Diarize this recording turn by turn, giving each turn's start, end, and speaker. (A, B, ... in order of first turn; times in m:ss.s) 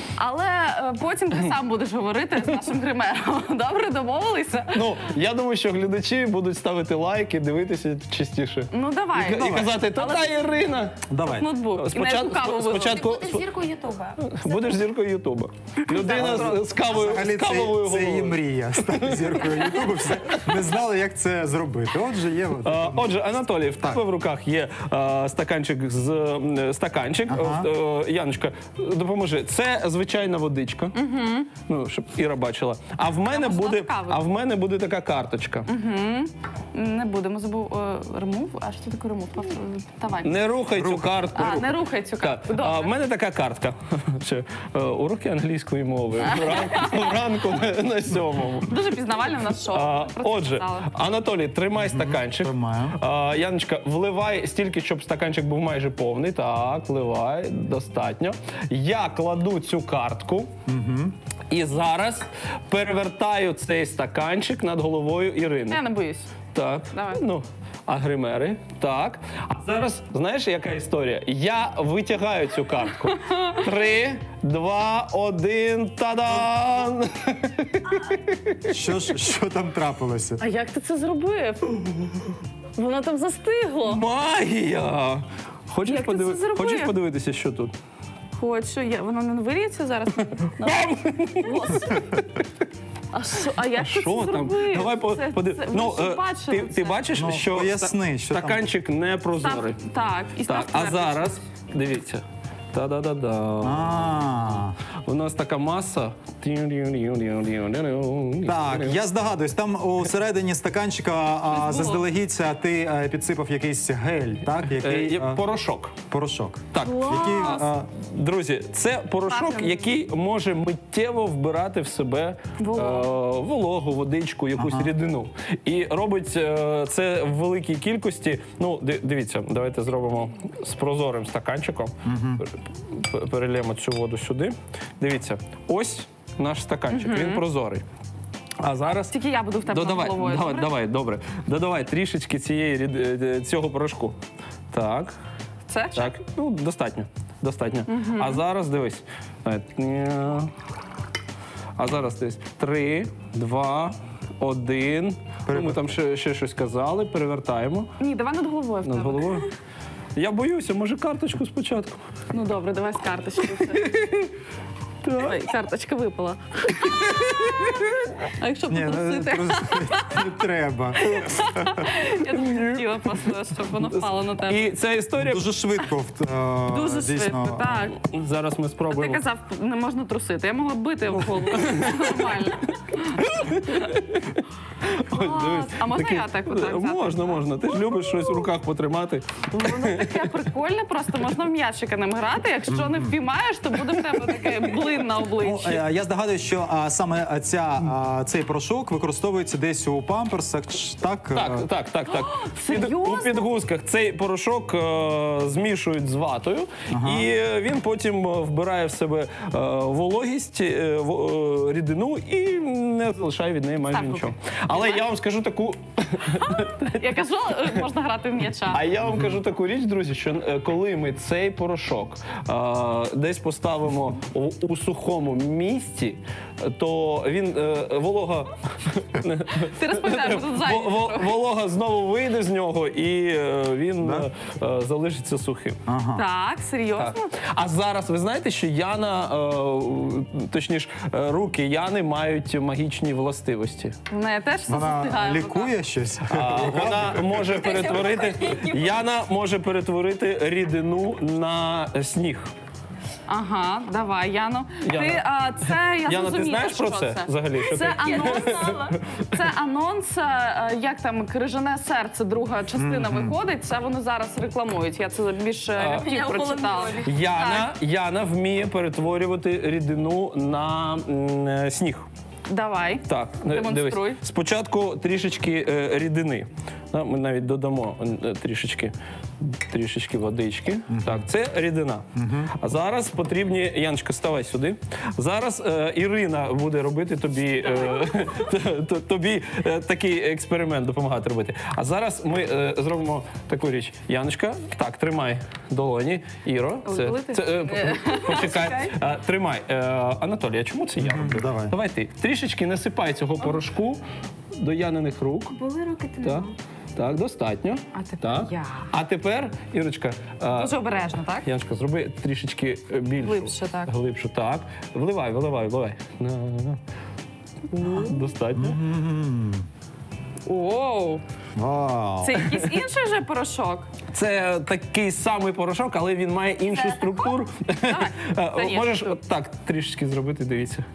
0:00.2-0:05.0 A
0:04.7-0:11.0 B
0:08.7-0:10.5 A
0:09.4-0:09.7 C
0:11.1-0:11.5 C
0:11.2-0:13.0 A
0:11.8-0:13.5 B
0:12.8-0:14.8 D
0:14.2-0:20.5 B
0:15.8-0:16.7 A
0:16.1-0:23.3 C
0:22.6-0:31.0 B
0:27.3-0:27.7 C
0:30.9-0:31.5 A
0:31.7-0:35.7 B
0:33.3-0:34.2 A
0:35.7-0:40.5 A
0:40.2-0:41.6 B
0:40.7-0:41.7 C
0:41.4-0:42.9 A
0:42.2-0:48.7 B
0:46.2-0:47.2 A
0:48.7-0:50.9 A
0:49.7-1:00.5 B
0:51.8-0:53.0 C
1:00.7-1:01.1 C
1:01.5-1:05.8 B
1:05.7-1:06.3 A
1:06.5-1:18.7 B
1:06.9-1:07.2 A
1:13.2-1:13.6 A
1:18.7-1:20.4 C
1:20.4-1:24.0 A
1:23.8-1:27.7 B
1:25.9-1:27.0 A
1:28.4-1:32.1 A
1:30.6-1:32.2 B
1:33.1-1:37.0 A
1:33.8-1:39.8 B
1:37.1-1:38.7 C
1:39.4-1:41.4 A
1:40.5-1:49.0 B
1:43.6-1:44.8 C
1:48.4-1:55.4 C
1:51.5-1:52.0 A
1:54.7-1:56.0 B
1:56.1-1:57.9 C
1:56.7-2:17.8 B
1:56.8-1:57.7 A
1:59.3-1:59.9 A
2:02.6-2:03.1 A
2:04.6-2:04.9 C
2:12.0-2:12.4 C
2:16.9-2:17.4 A
2:18.6-2:19.1 B
2:19.1-2:20.7 A
2:19.7-2:24.2 B
2:24.7-2:25.1 B
2:25.7-2:26.1 A
2:26.0-2:30.5 B
2:27.9-2:28.4 A
2:31.8-2:37.9 B
2:35.5-2:36.0 C
2:38.0-2:39.5 A
2:38.8-2:39.5 B
2:40.2-2:42.0 B
2:42.3-2:44.0 A
2:43.8-2:44.3 B
2:45.0-2:45.4 B
2:45.2-2:50.3 A
2:46.8-2:47.7 B
2:48.7-2:51.8 C
2:51.0-2:54.7 A
2:52.3-2:53.2 B
2:53.8-2:55.5 B
2:55.2-2:57.8 C
2:56.7-2:58.0 A
2:58.0-2:59.2 B
2:58.9-3:03.3 A
3:01.2-3:10.3 B
3:05.1-3:08.5 A
3:09.6-3:15.8 A
3:12.7-3:13.2 C
3:13.9-3:14.8 B
3:15.4-3:21.7 C
3:21.3-3:37.0 B
3:22.1-3:23.5 A
3:26.9-3:27.3 C
3:33.9-3:35.0 A
3:36.5-3:38.8 A
3:38.7-3:55.8 B
3:39.1-3:39.3 C
3:49.7-3:51.3 A
3:54.0-3:54.3 C
3:55.9-3:56.2 C
3:56.1-3:57.3 A
3:57.0-4:04.0 B
4:04.1-4:05.7 A
4:04.7-4:07.7 C
4:06.3-4:12.5 B
4:07.5-4:09.0 D
4:13.3-4:27.7 A
4:14.8-4:19.3 B
4:18.0-4:19.0 D
4:22.8-4:23.4 C
4:25.8-4:26.1 B
4:26.0-4:27.2 D
4:27.0-4:32.1 B
4:32.5-4:34.2 A
4:33.1-5:04.0 B
4:40.9-4:41.3 C
4:42.2-4:42.5 C
4:47.8-4:48.2 A
4:56.8-4:58.9 A
4:58.2-4:58.8 D
5:01.0-5:01.8 C
5:04.6-5:05.6 B
5:05.5-5:06.5 D
5:06.2-5:10.7 B
5:07.9-5:08.9 A
5:10.5-5:11.5 A
5:11.4-5:16.8 B
5:13.2-5:13.9 A
5:17.7-5:18.8 B
5:17.8-5:18.2 A
5:18.5-5:19.7 C
5:20.5-5:21.2 A
5:21.6-5:22.4 C
5:22.2-5:23.9 A
5:24.1-5:30.8 B
5:26.7-5:29.1 A